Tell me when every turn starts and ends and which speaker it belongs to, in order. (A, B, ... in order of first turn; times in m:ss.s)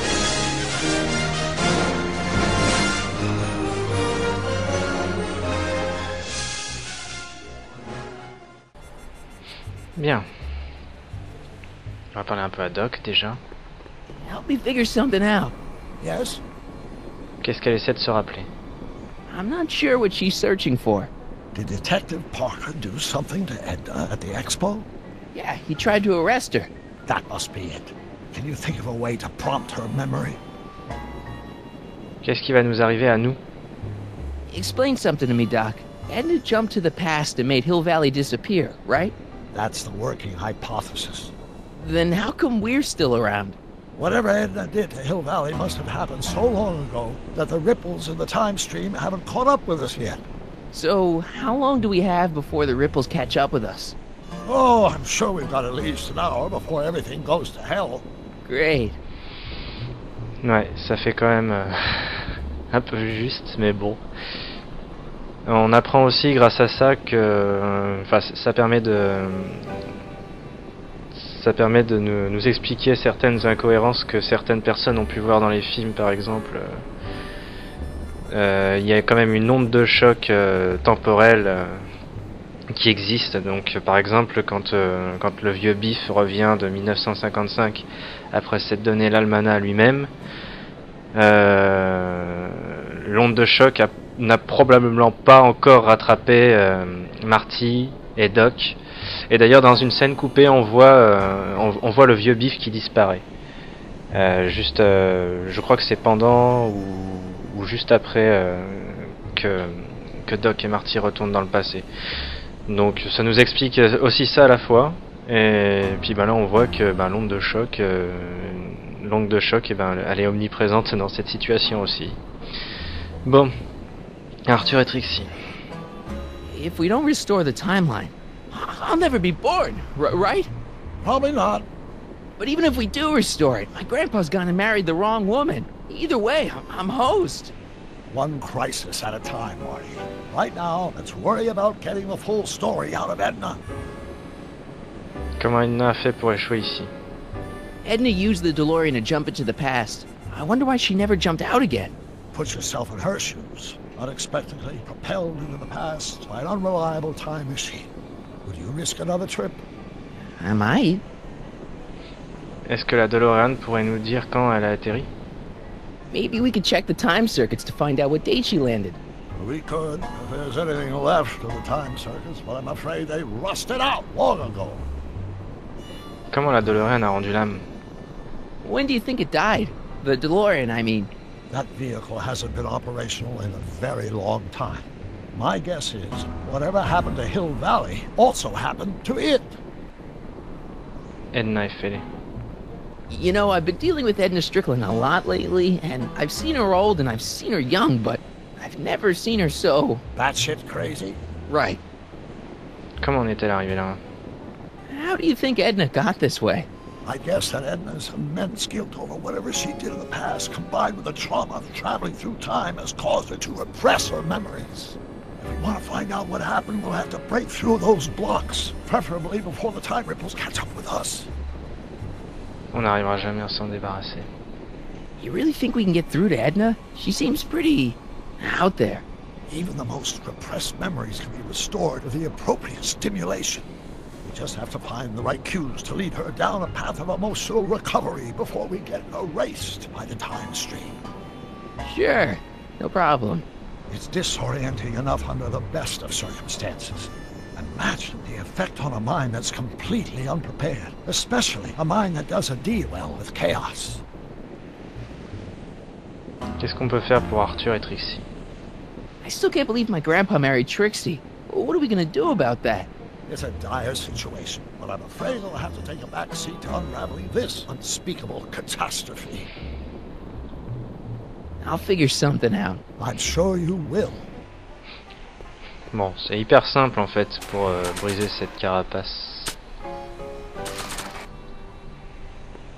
0:10.0-0:10.3 A
0:12.1-0:13.4 A
0:14.2-0:15.5 B
0:16.0-0:16.4 C
0:17.4-0:18.5 A
0:19.3-0:21.1 B
0:21.5-0:24.9 C
0:25.3-0:26.7 B
0:27.1-0:30.4 C
0:32.2-0:33.4 A
0:34.5-0:39.1 B
0:39.5-0:41.3 C
0:41.8-0:43.6 B
0:44.0-0:50.2 C
0:50.7-0:54.0 B
0:54.4-0:58.0 C
0:58.5-0:59.0 B
1:00.4-1:04.0 A
1:05.4-1:09.7 A
1:11.2-1:16.8 A
1:18.3-1:21.8 A
1:22.7-1:30.1 A
1:31.2-1:43.2 A
1:44.1-1:51.9 A
1:52.7-2:02.2 A
2:03.2-2:03.5 A
2:04.5-2:05.3 A
2:06.5-2:10.5 B
2:11.0-2:11.7 C
2:12.4-2:17.5 B
2:18.1-2:23.6 C
2:25.4-2:26.9 A
2:27.8-2:31.9 B
2:32.3-2:37.9 C
2:38.4-2:39.6 C
2:40.4-2:41.0 B
2:42.7-2:45.1 A
2:46.1-2:49.0 B
2:49.4-2:54.9 C
2:56.3-2:57.7 A
2:58.6-3:01.1 B
3:01.5-3:09.6 C
3:11.3-3:12.0 A
3:13.1-3:20.0 B
3:20.2-3:21.2 C
3:21.5-3:21.8 B
3:23.0-3:24.0 A
3:24.9-3:26.7 B
3:27.0-3:41.3 C
3:42.7-3:44.3 A
3:45.2-3:49.0 B
3:49.5-3:53.7 C
3:54.2-4:01.0 C
4:01.8-4:03.5 B
4:03.9-4:14.0 C
4:16.6-4:18.2 A
4:19.2-4:22.9 B
4:23.3-4:29.5 C
4:31.6-4:32.8 B
4:33.0-4:34.3 C
4:35.9-4:39.5 A